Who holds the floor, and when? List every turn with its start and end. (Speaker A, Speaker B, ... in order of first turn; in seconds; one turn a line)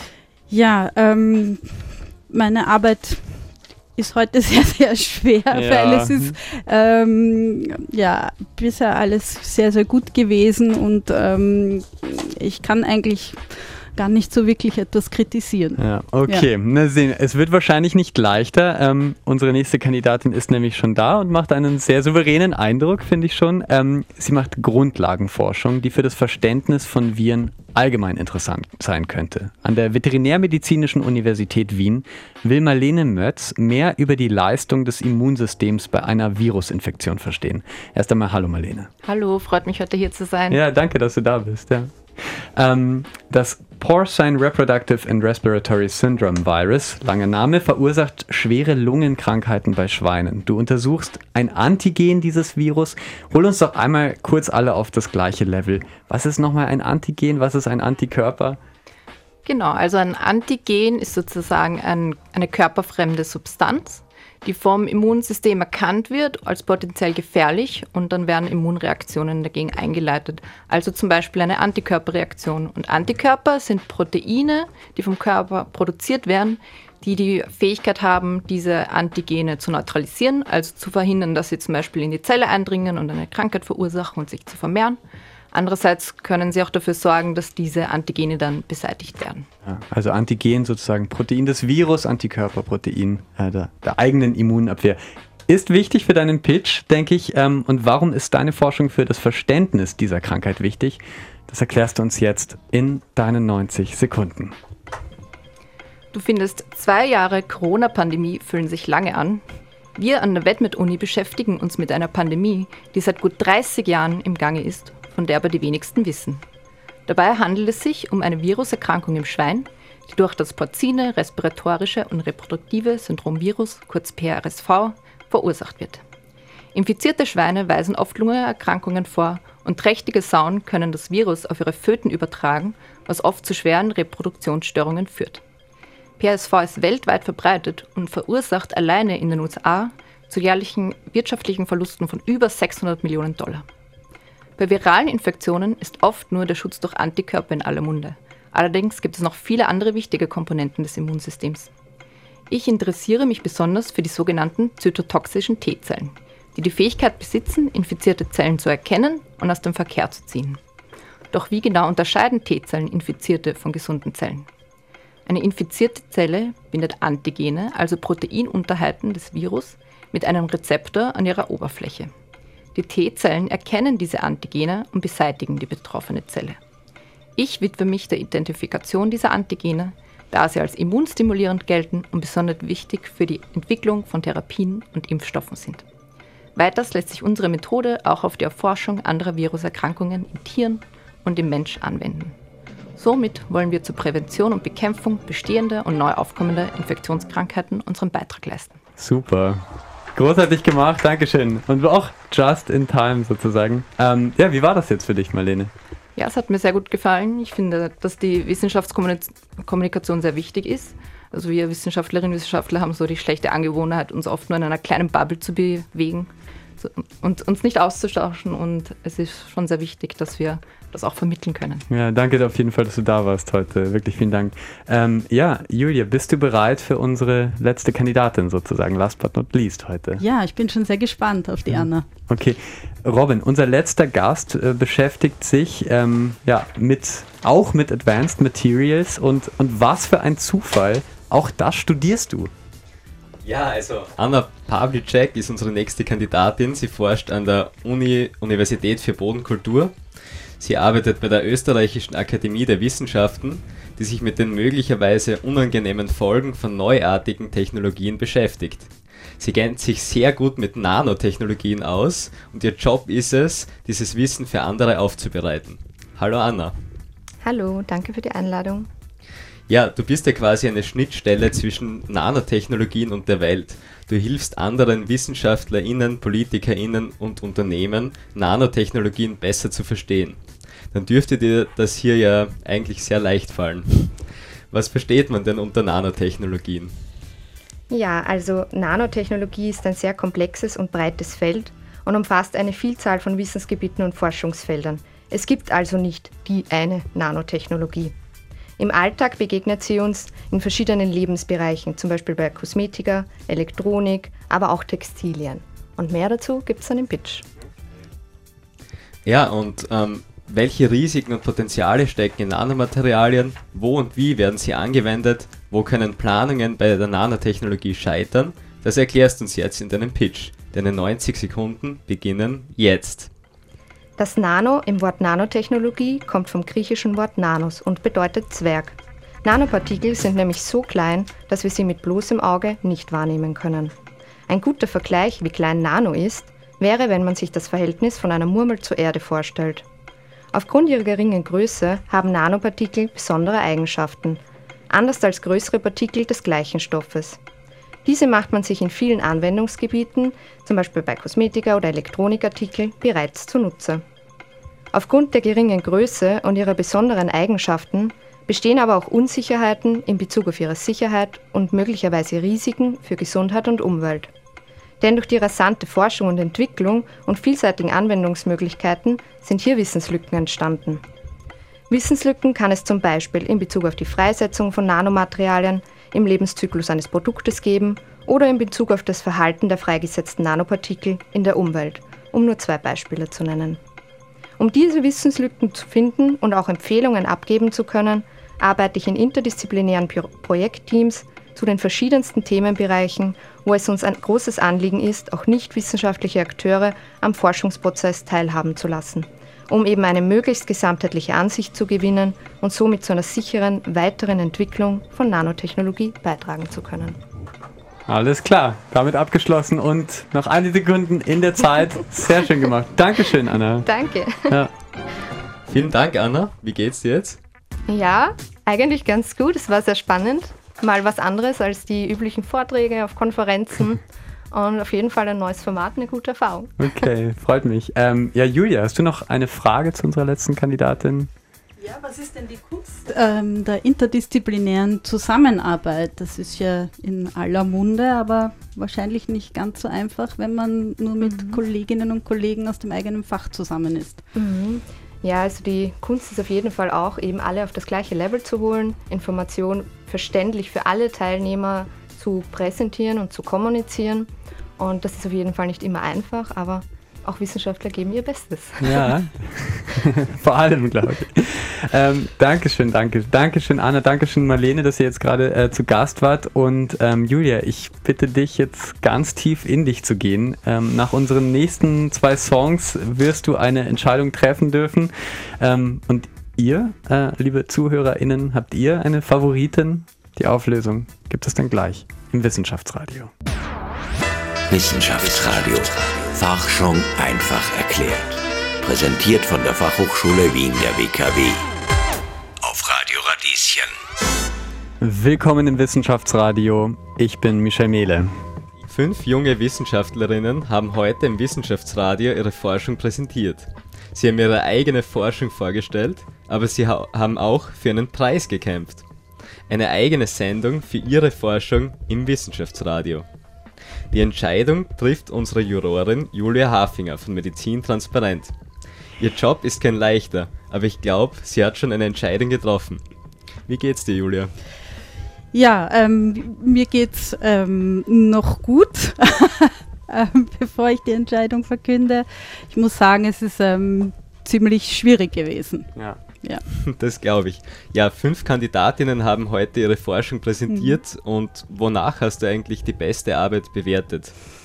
Speaker A: 0.5-16.4
Speaker B: 5.5-6.4
Speaker B: 15.8-38.9
Speaker C: 39.0-40.6
Speaker B: 40.5-58.6
Speaker C: 59.4-85.0
Speaker C: 85.5-89.5
Speaker B: 89.6-104.5
Speaker C: 106.1-109.4
Speaker C: 110.0-116.4
Speaker C: 117.0-126.0
Speaker C: 126.7-135.4
Speaker C: 136.2-143.7
Speaker C: 144.6-151.7
Speaker C: 152.5-160.6
Speaker C: 161.3-164.5
Speaker C: 165.2-172.1
Speaker C: 172.7-176.6
Speaker C: 177.3-185.8
Speaker C: 186.6-192.3
Speaker C: 192.9-198.8
Speaker B: 199.0-205.7
Speaker C: 206.2-221.8
Speaker B: 221.9-230.2
Speaker A: 230.2-232.1
Speaker B: 231.7-242.5
Speaker D: 243.4-249.9
Speaker D: 250.6-266.8
Speaker E: 267.4-268.9
Speaker D: 269.7-280.4
Speaker D: 280.9-287.0
Speaker E: 287.9-298.1
Speaker E: 298.8-307.4
Speaker D: 309.2-323.3
Speaker E: 324.2-333.9
Speaker E: 334.5-339.9
Speaker E: 340.5-347.4
Speaker E: 348.0-354.0
Speaker E: 354.9-364.3
Speaker E: 365.0-371.0
Speaker E: 371.9-383.8
Speaker E: 384.6-407.2
Speaker B: 408.1-413.9
Speaker E: 413.9-414.6
Speaker D: 415.7-417.4
Speaker E: 417.9-427.1
Speaker B: 426.8-431.3
Speaker A: 431.8-444.2
Speaker E: 444.3-459.1
Speaker B: 458.8-483.3
Speaker F: 484.7-491.6
Speaker F: 492.6-493.9
Speaker B: 495.0-498.4
Speaker D: 498.9-509.0
Speaker D: 509.7-513.2
Speaker D: 514.1-518.5
Speaker D: 519.2-523.0
Speaker D: 523.7-524.5
Speaker A: 525.5-535.9
Speaker D: 536.8-544.3
Speaker A: 540.7-541.0